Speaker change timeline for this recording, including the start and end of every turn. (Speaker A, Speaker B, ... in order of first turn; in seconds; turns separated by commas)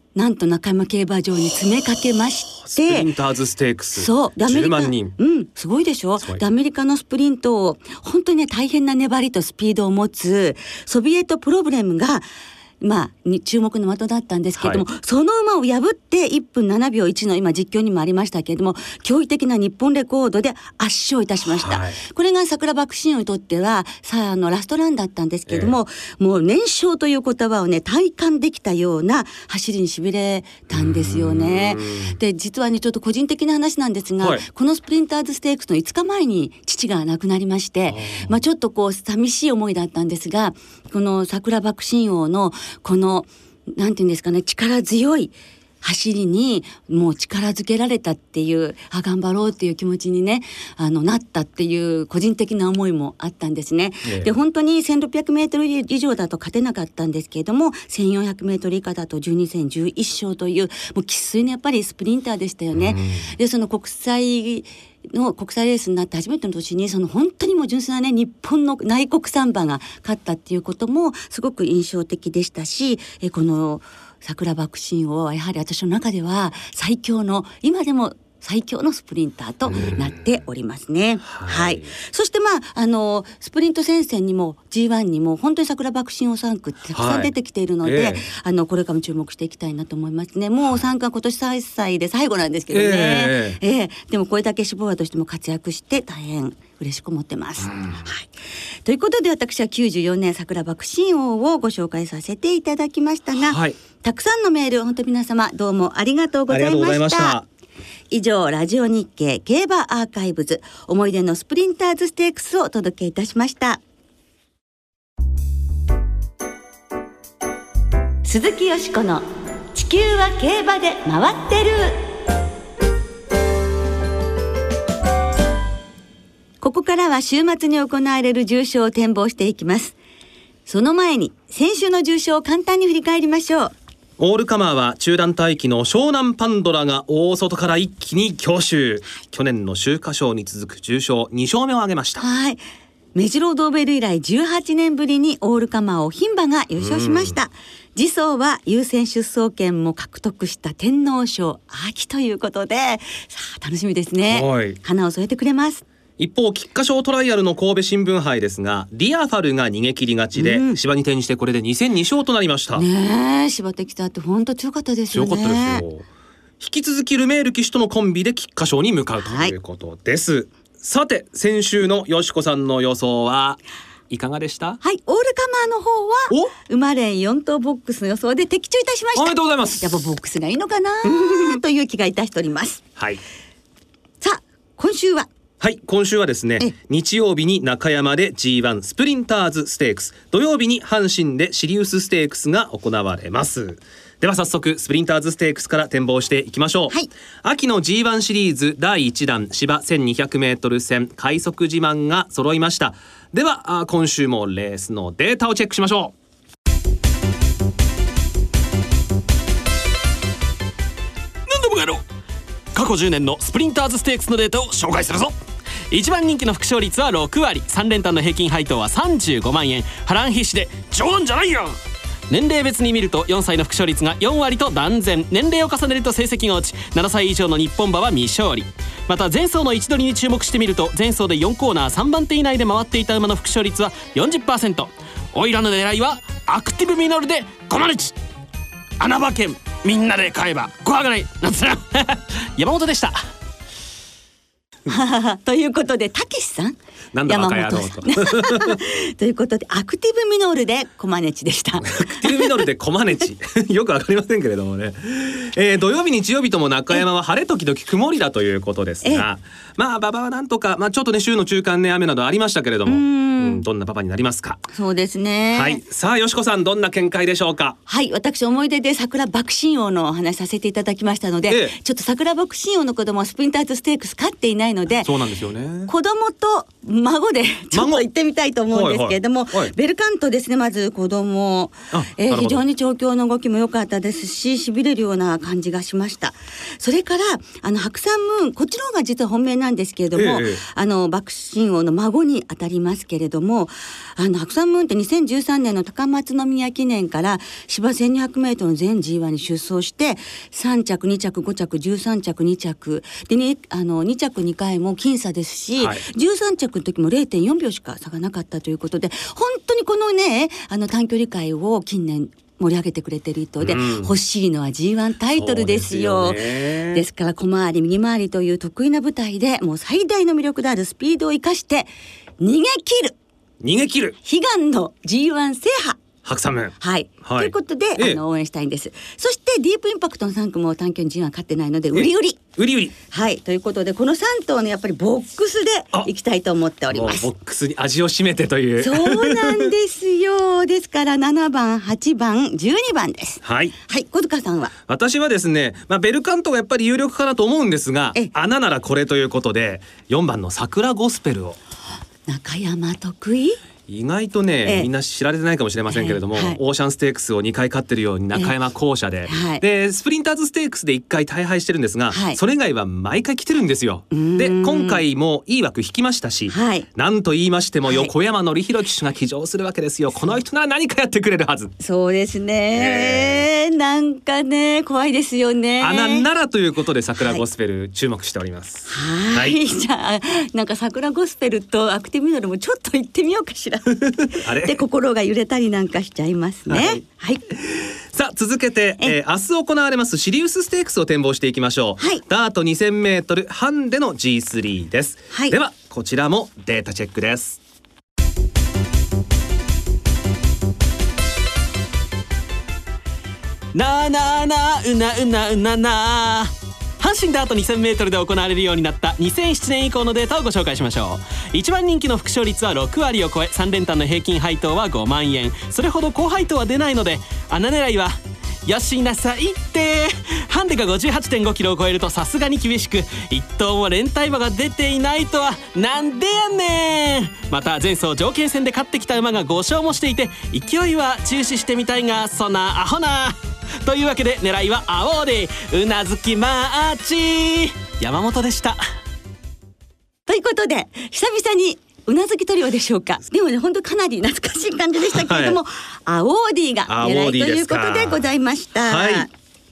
Speaker A: 0.1-3.1, Speaker B: 2.6-5.1, Speaker A: 4.0-12.2, Speaker A: 12.8-107.4, Speaker B: 14.6-14.8, Speaker B: 21.4-22.0, Speaker B: 25.5-25.7, Speaker B: 30.7-32.1, Speaker B: 37.9-38.3, Speaker B: 54.0-54.3, Speaker B: 62.7-63.3, Speaker B: 79.7-80.1, Speaker B: 81.2-81.9, Speaker B: 86.9-87.3, Speaker B: 87.8-88.2, Speaker B: 92.7-93.6, Speaker B: 103.3-103.8, Speaker B: 106.5-107.5, Speaker A: 108.1-113.8, Speaker A: 118.2-122.0, Speaker A: 126.6-129.9, Speaker A: 130.7-133.7, Speaker B: 134.2-142.2, Speaker A: 142.2-142.6, Speaker A: 143.1-155.8, Speaker B: 146.8-147.3, Speaker B: 154.3-154.8, Speaker B: 156.2-162.8, Speaker A: 160.3-160.8, Speaker A: 162.7-165.8, Speaker B: 165.1-166.1, Speaker B: 166.6-174.8, Speaker A: 169.2-169.5, Speaker A: 174.8-182.8, Speaker B: 179.1-179.9, Speaker B: 183.0-183.2, Speaker A: 184.2-185.3, Speaker B: 185.6-206.1, Speaker C: 211.5-212.0, Speaker C: 212.7-215.3, Speaker C: 215.9-221.8, Speaker C: 222.3-238.1, Speaker C: 239.0-243.2, Speaker A: 244.9-252.6, Speaker B: 247.1-248.8, Speaker B: 251.8-264.6, Speaker A: 262.9-263.6, Speaker A: 264.7-265.8, Speaker B: 265.5-267.8, Speaker A: 267.9-275.1, Speaker B: 271.5-271.7, Speaker B: 275.0-275.9, Speaker A: 275.9-323.1, Speaker B: 277.7-278.0, Speaker B: 278.7-279.7, Speaker B: 281.9-282.6, Speaker B: 290.1-290.6, Speaker B: 305.8-306.0, Speaker B: 313.6-314.1, Speaker B: 315.3-317.0, Speaker B: 323.6-324.2, Speaker A: 324.2-326.0, Speaker B: 326.2-328.2, Speaker A: 326.8-332.4, Speaker B: 331.9-332.9, Speaker A: 333.1-337.3, Speaker B: 336.9-339.7, Speaker A: 338.8-344.7, Speaker B: 343.4-343.7, Speaker B: 344.9-351.6, Speaker A: 352.3-353.6, Speaker B: 353.9-371.7, Speaker A: 355.9-356.6, Speaker A: 359.3-359.6, Speaker A: 362.1-362.4, Speaker A: 364.1-365.0, Speaker A: 366.5-366.9, Speaker A: 367.9-368.1, Speaker A: 371.8-376.2, Speaker B: 372.7-373.4, Speaker B: 375.8-379.6, Speaker A: 378.9-387.4, Speaker B: 384.3-384.8, Speaker B: 386.7-387.0, Speaker B: 387.6-397.6, Speaker A: 395.3-395.6, Speaker C: 403.7-438.8, Speaker A: 440.3-449.3, Speaker B: 445.1-445.6, Speaker B: 446.9-448.3, Speaker B: 448.8-449.3